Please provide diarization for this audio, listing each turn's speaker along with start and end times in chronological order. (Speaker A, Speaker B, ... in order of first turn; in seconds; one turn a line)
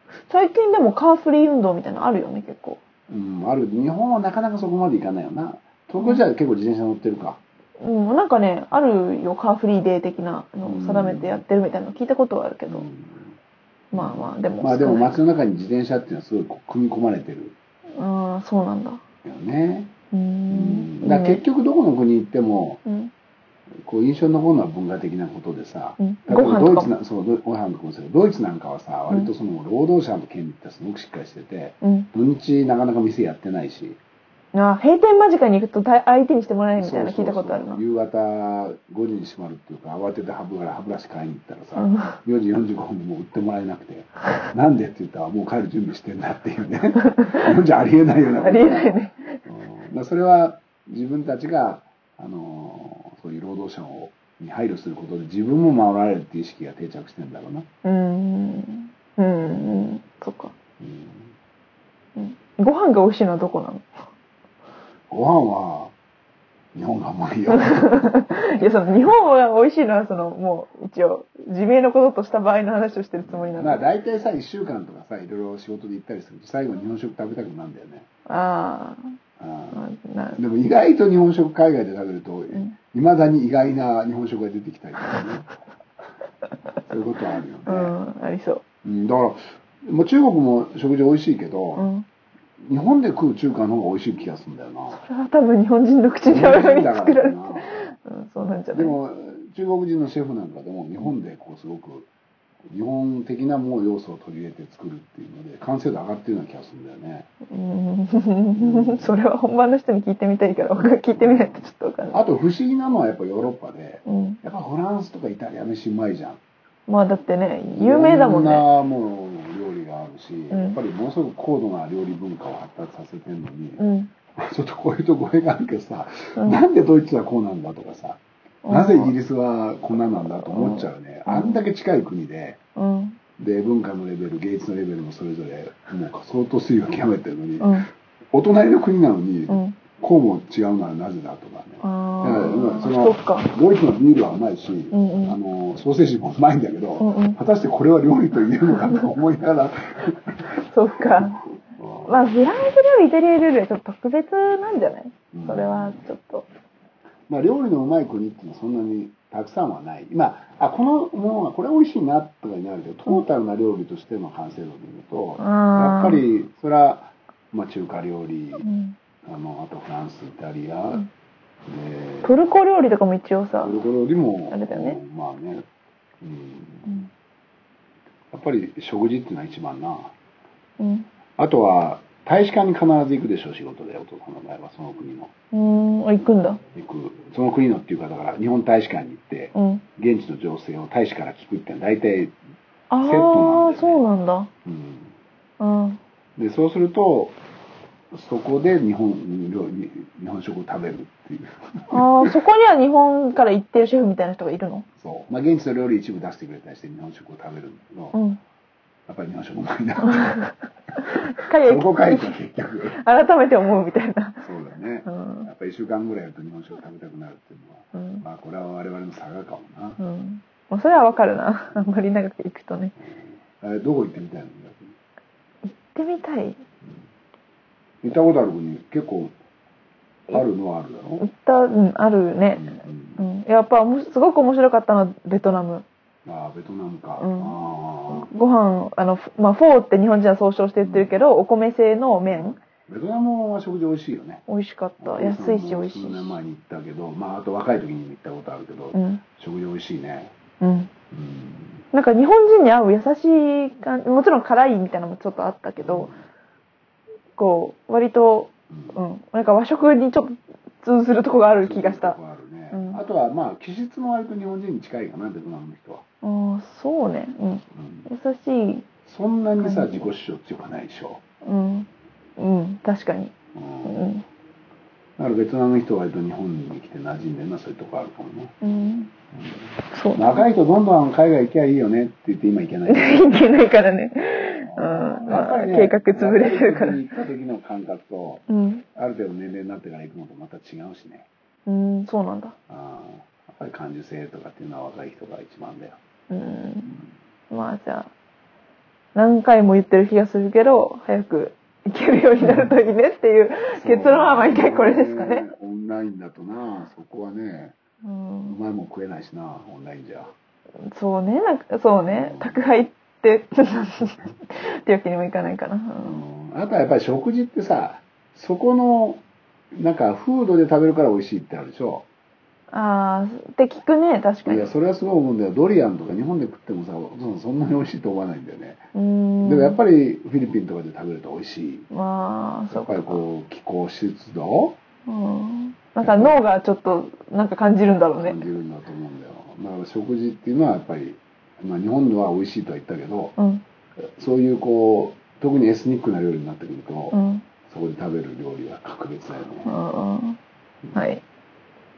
Speaker A: 0.3-2.8
Speaker B: 3.1-7.4
Speaker A: 7.8-12.8
Speaker B: 10.6-11.4
Speaker B: 12.7-13.3
Speaker A: 13.9-15.2
Speaker B: 13.9-17.6
Speaker A: 18.0-19.0
Speaker B: 19.2-19.9
Speaker A: 20.1-21.4
Speaker B: 20.5-22.8
Speaker A: 22.8-23.1
Speaker B: 23.8-34.0
Speaker A: 26.0-26.9
Speaker A: 31.8-32.1
Speaker A: 34.5-37.8
Speaker B: 36.8-57.7
Speaker A: 41.8-42.1
Speaker A: 48.4-49.4
Speaker A: 57.8-60.5
Speaker B: 59.4-59.8
Speaker B: 60.8-61.3
Speaker A: 62.1-64.0
Speaker B: 65.1-65.9
Speaker B: 66.7-68.8
Speaker A: 67.5-73.9
Speaker B: 73.2-78.1
Speaker A: 78.3-79.0
Speaker B: 79.4-79.8
Speaker A: 79.7-80.4
Speaker B: 80.3-85.5
Speaker B: 86.9-88.0
Speaker A: 87.6-88.6
Speaker B: 88.8-91.9
Speaker A: 91.7-92.0
Speaker B: 92.6-95.0
Speaker A: 94.9-99.0
Speaker B: 96.2-97.9
Speaker B: 98.7-102.1
Speaker B: 102.7-107.3
Speaker A: 107.5-112.2
Speaker B: 108.5-109.2
Speaker B: 111.2-116.4
Speaker A: 114.0-114.4
Speaker A: 116.9-118.7
Speaker B: 117.7-123.8
Speaker A: 120.5-120.8
Speaker A: 123.8-124.1
Speaker B: 124.4-132.6
Speaker A: 126.4-126.6
Speaker A: 128.6-129.1
Speaker A: 130.2-131.6
Speaker A: 132.8-133.2
Speaker B: 133.4-137.8
Speaker A: 137.6-137.9
Speaker B: 138.3-152.3
Speaker A: 139.5-139.8
Speaker A: 141.8-143.5
Speaker A: 144.9-145.4
Speaker A: 147.0-147.4
Speaker A: 150.7-151.4
Speaker A: 152.1-156.5
Speaker B: 155.3-156.0
Speaker B: 157.3-168.6
Speaker A: 165.4-166.2
Speaker A: 168.6-168.9
Speaker B: 169.2-171.0
Speaker B: 171.7-172.4
Speaker A: 172.2-173.8
Speaker B: 173.6-175.6
Speaker A: 174.5-175.0
Speaker B: 176.2-177.1
Speaker B: 178.3-180.1
Speaker A: 180.8-181.1
Speaker B: 181.4-185.3
Speaker A: 185.5-186.6
Speaker B: 186.7-192.3
Speaker A: 189.5-189.8
Speaker A: 192.9-194.5
Speaker B: 193.0-194.0
Speaker B: 194.6-195.1
Speaker A: 195.6-196.0
Speaker B: 196.4-197.4
Speaker B: 198.1-202.3
Speaker A: 201.9-204.8
Speaker B: 205.0-208.2
Speaker A: 208.1-208.4
Speaker B: 209.1-210.4
Speaker A: 210.0-212.4
Speaker B: 211.4-213.0
Speaker A: 213.0-214.4
Speaker B: 214.4-220.0
Speaker A: 215.1-215.5
Speaker A: 217.9-218.2
Speaker A: 220.0-222.9
Speaker B: 223.0-224.9
Speaker A: 225.6-226.6
Speaker B: 228.0-229.3
Speaker B: 230.3-231.3
Speaker A: 231.2-235.8
Speaker B: 232.5-233.3
Speaker B: 236.2-238.3
Speaker A: 237.2-237.6
Speaker A: 238.1-242.6
Speaker B: 240.8-241.1
Speaker B: 242.2-244.4
Speaker A: 244.5-246.4
Speaker B: 245.0-250.3
Speaker A: 248.9-249.2
Speaker A: 250.6-250.9
Speaker B: 251.1-251.8
Speaker A: 251.9-256.1
Speaker B: 255.8-256.2
Speaker A: 257.4-262.2
Speaker B: 258.7-259.0
Speaker B: 261.6-266.0
Speaker A: 262.7-263.0
Speaker A: 266.2-268.9
Speaker B: 267.7-268.1
Speaker B: 269.1-271.2
Speaker A: 269.6-270.1
Speaker A: 271.4-273.3
Speaker B: 273.5-274.1
Speaker A: 273.8-274.2
Speaker B: 275.2-278.5
Speaker A: 278.6-279.1
Speaker B: 279.3-283.3
Speaker A: 279.9-280.4
Speaker A: 282.9-287.1
Speaker B: 284.6-291.3
Speaker A: 288.5-288.8
Speaker A: 291.6-292.5
Speaker B: 292.7-296.0
Speaker A: 296.3-296.9
Speaker A: 297.5-298.1
Speaker A: 299.1-305.4
Speaker B: 302.4-302.7
Speaker B: 303.7-307.8
Speaker A: 308.0-308.6
Speaker B: 308.4-310.3
Speaker A: 310.9-316.2
Speaker B: 312.1-312.6
Speaker B: 316.0-319.2
Speaker B: 319.7-322.1
Speaker A: 322.7-324.7
Speaker B: 324.4-328.8
Speaker A: 328.9-329.8
Speaker B: 329.4-331.9
Speaker A: 331.9-333.2
Speaker B: 332.7-334.8
Speaker A: 335.1-338.4
Speaker B: 336.0-336.4
Speaker B: 338.2-343.4
Speaker A: 343.4-343.6
Speaker B: 344.2-349.8
Speaker A: 347.1-347.4
Speaker A: 349.6-350.4
Speaker A: 350.9-351.2